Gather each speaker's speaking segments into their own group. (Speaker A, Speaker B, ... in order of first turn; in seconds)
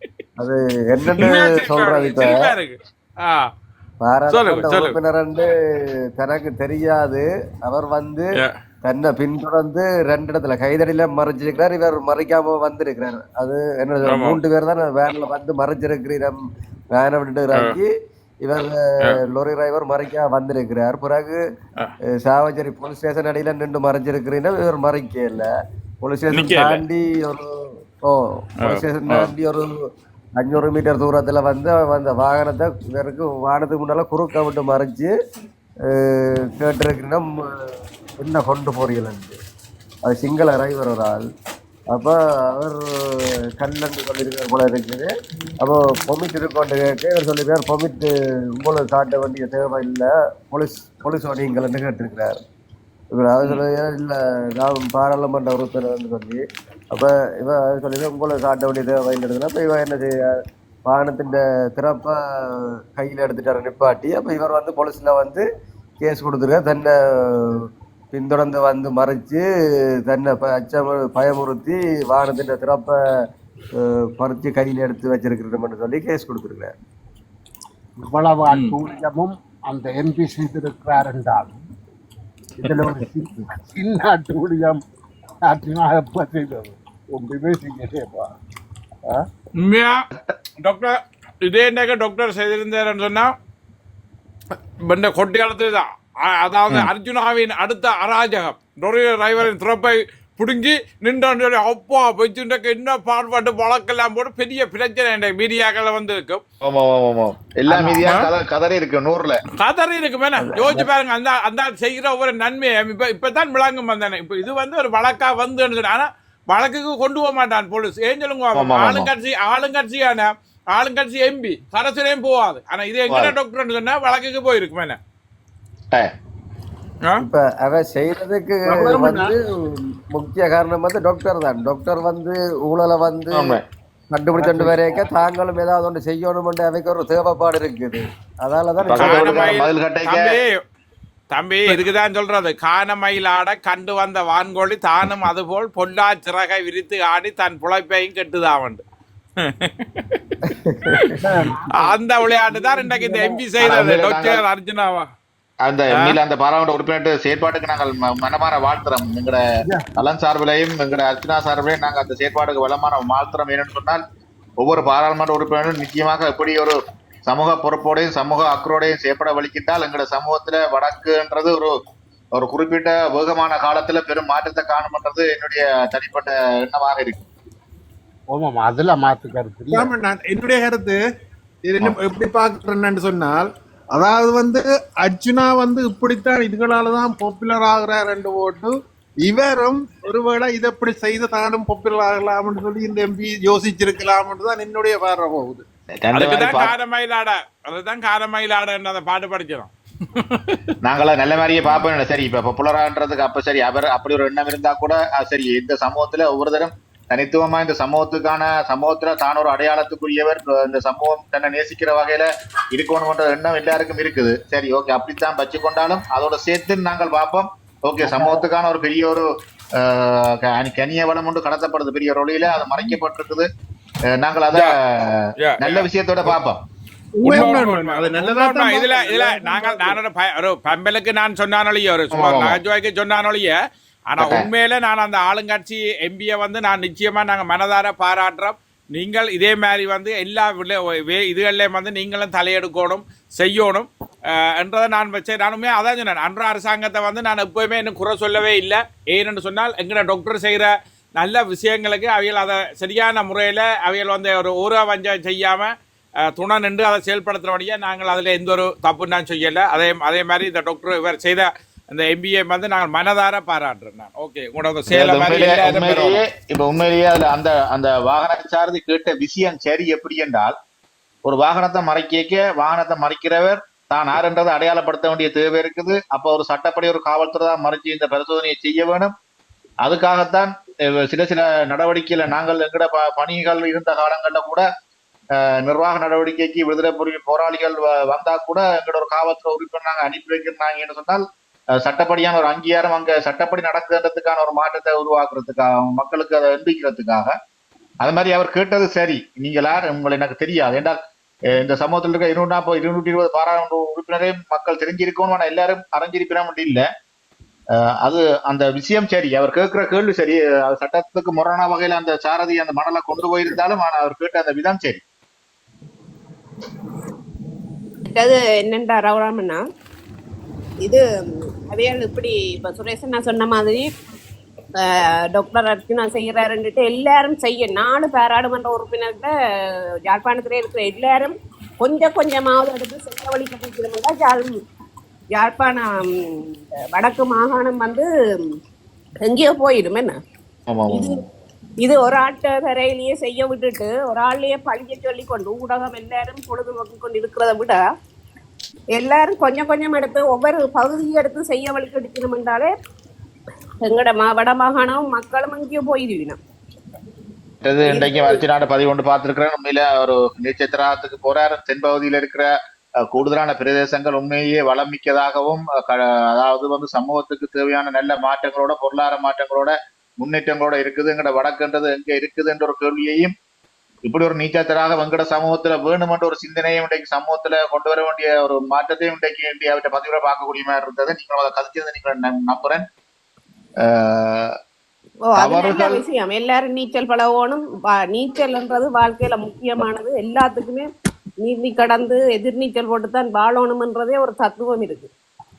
Speaker A: 0.4-2.5, 4.0-16.4, 16.9-17.9, 18.4-21.4, 22.2-25.5, 26.0-29.8, 30.4-35.1, 35.9-37.7, 38.2-39.4, 40.0-41.2, 41.9-52.4, 53.1-65.4, 66.0-69.4, 70.0-73.0, 73.8-76.7, 107.7-108.0, 110.4-110.9, 127.2-133.6, 134.1-139.4, 150.4-151.1
Speaker B: 1.1-3.5, 4.3-5.0, 14.0-14.4, 17.5-17.8, 26.3-26.8, 28.6-29.3, 78.5-78.8, 89.5-90.0, 90.6-93.3, 94.8-106.4, 109.6-125.0, 138.9-140.6, 141.3-148.8, 149.4-150.0, 151.7-155.1, 196.1-200.6, 225.4-225.8, 227.2-233.6, 234.1-255.7, 256.3-266.2
Speaker C: 78.0-81.6, 82.6-84.8, 85.4-88.3, 128.7-129.3, 134.3-135.1, 151.5-151.9, 152.6-153.1, 178.3-179.9
Speaker D: 106.6-109.4, 118.5-119.1, 123.1-123.3, 133.3-133.6, 138.8-140.4, 153.6-154.4, 155.6-159.4, 160.0-164.0, 164.6-171.7, 172.3-177.2, 196.0-196.7, 200.8-219.2, 219.8-223.5, 224.2-226.6, 232.1-232.6, 234.2-234.5, 264.9-270.5, 271.2-279.1, 279.8-280.5, 281.0-284.6, 285.6-291.2, 291.8-297.3, 298.0-301.0, 301.5-306.9, 308.0-315.0, 340.7-341.2, 357.6-362.5, 363.1-373.3, 374.0-382.8, 383.9-384.5, 385.4-386.0
Speaker E: 179.7-181.0, 181.6-195.6, 227.3-229.9
Speaker F: 318.1-319.6, 321.7-323.9, 324.8-329.3, 330.1-334.5, 335.3-338.1, 339.2-340.1, 340.9-341.2, 341.8-347.8, 348.9-352.7, 353.8-356.4, 357.9-358.4, 385.3-390.9, 391.4-395.1